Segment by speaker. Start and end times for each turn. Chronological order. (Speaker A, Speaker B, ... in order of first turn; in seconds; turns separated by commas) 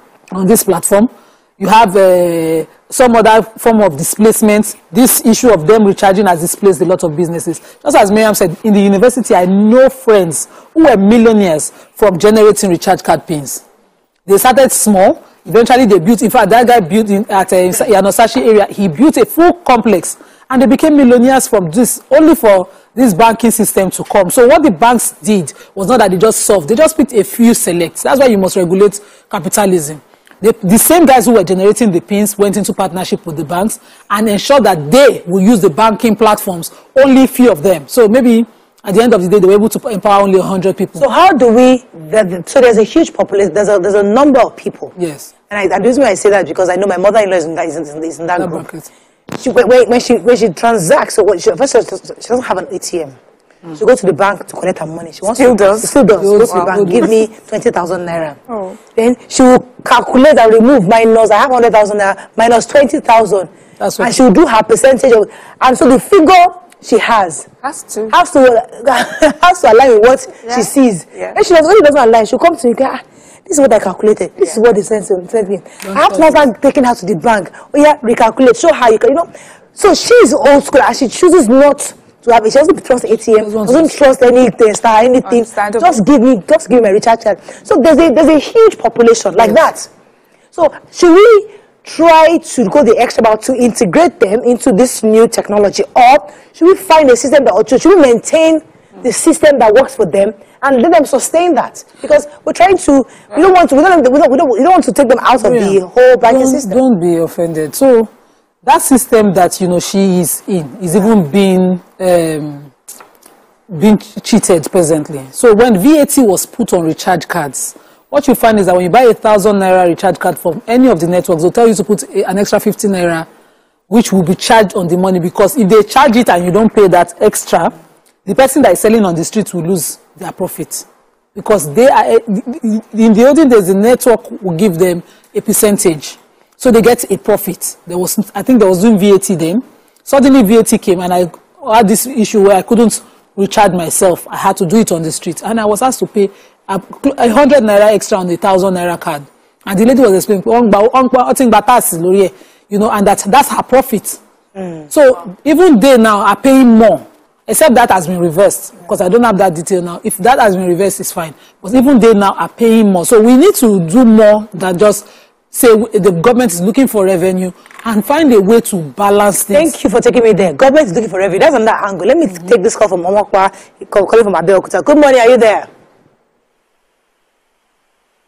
Speaker A: 0.3-13.6, Speaker A: 14.3-41.0, Speaker B: 41.0-44.9, Speaker A: 45.0-45.3, Speaker B: 45.5-48.6, Speaker A: 48.4-48.9, Speaker B: 49.3-53.2, Speaker B: 53.8-58.4, Speaker C: 55.4-57.0, Speaker A: 56.2-57.1, Speaker C: 58.5-58.8, Speaker B: 59.0-67.5, Speaker A: 63.8-64.1, Speaker C: 67.6-68.1, Speaker B: 68.1-89.9, Speaker C: 70.5-71.4, Speaker A: 75.8-76.4, Speaker A: 83.4-84.0, Speaker C: 85.2-86.0, Speaker B: 90.5-106.8, Speaker A: 105.4-108.1, Speaker A: 108.6-112.7, Speaker A: 113.7-123.3, Speaker A: 123.9-127.7, Speaker A: 128.2-154.2, Speaker B: 154.6-154.8, Speaker A: 154.9-169.7, Speaker B: 169.5-175.7